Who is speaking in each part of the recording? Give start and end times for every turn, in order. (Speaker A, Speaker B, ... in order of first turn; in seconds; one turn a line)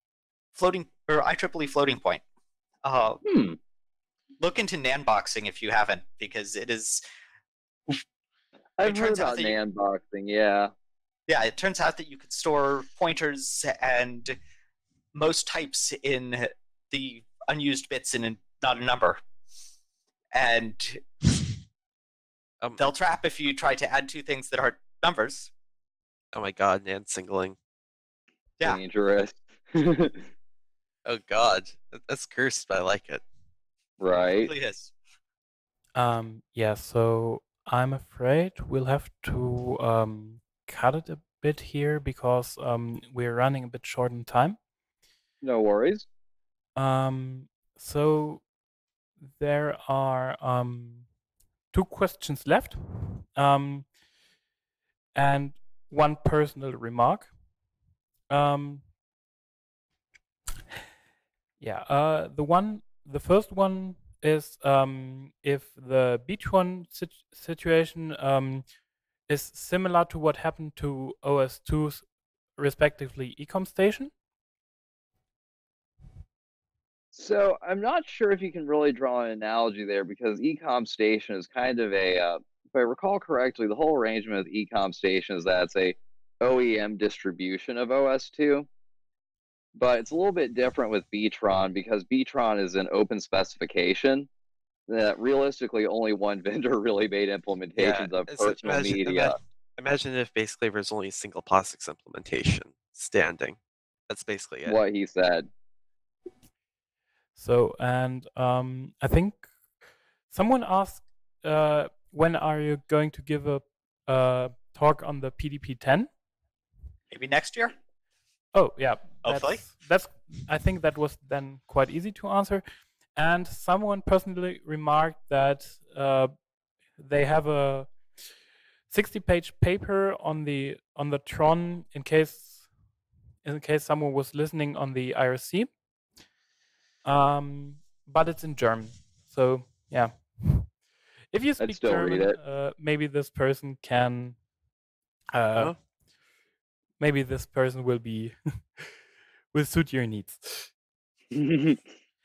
Speaker A: 0.5-2.2
Speaker A: 2.8-3.2
Speaker B: 3.2-3.6
Speaker A: 4.4-7.0
Speaker B: 8.8-10.7
Speaker A: 8.8-9.6
Speaker A: 11.3-14.4
Speaker A: 15.1-19.2
Speaker A: 20.3-21.0
Speaker A: 22.8-25.5
Speaker C: 26.3-27.6
Speaker B: 28.6-30.3
Speaker C: 31.1-33.2
Speaker B: 34.0-34.5
Speaker A: 34.5-34.9
Speaker D: 36.0-44.6
Speaker B: 45.4-46.1
Speaker D: 46.8-48.5
Speaker D: 49.3-51.0
Speaker D: 51.7-53.9
Speaker D: 55.1-57.3
Speaker D: 58.3-58.9
Speaker D: 61.6-68.7
Speaker D: 69.3-72.0
Speaker D: 72.6-74.1
Speaker B: 77.1-88.7
Speaker B: 89.8-94.3
Speaker B: 94.9-99.3
Speaker C: 97.8-103.6
Speaker C: 104.1-104.8
Speaker B: 104.7-105.5
Speaker D: 107.4-109.5
Speaker D: 110.3-116.1
Speaker A: 117.1-117.7
Speaker D: 118.5-122.6
Speaker A: 119.2-119.6
Speaker D: 123.1-126.3
Speaker D: 127.0-128.0
Speaker D: 128.9-132.6
Speaker D: 133.4-135.7
Speaker D: 137.0-140.8
Speaker D: 141.3-144.4
Speaker B: 141.6-142.4
Speaker D: 145.3-145.9
Speaker D: 147.0-149.0
Speaker D: 149.5-150.7
Speaker B: 151.4-151.8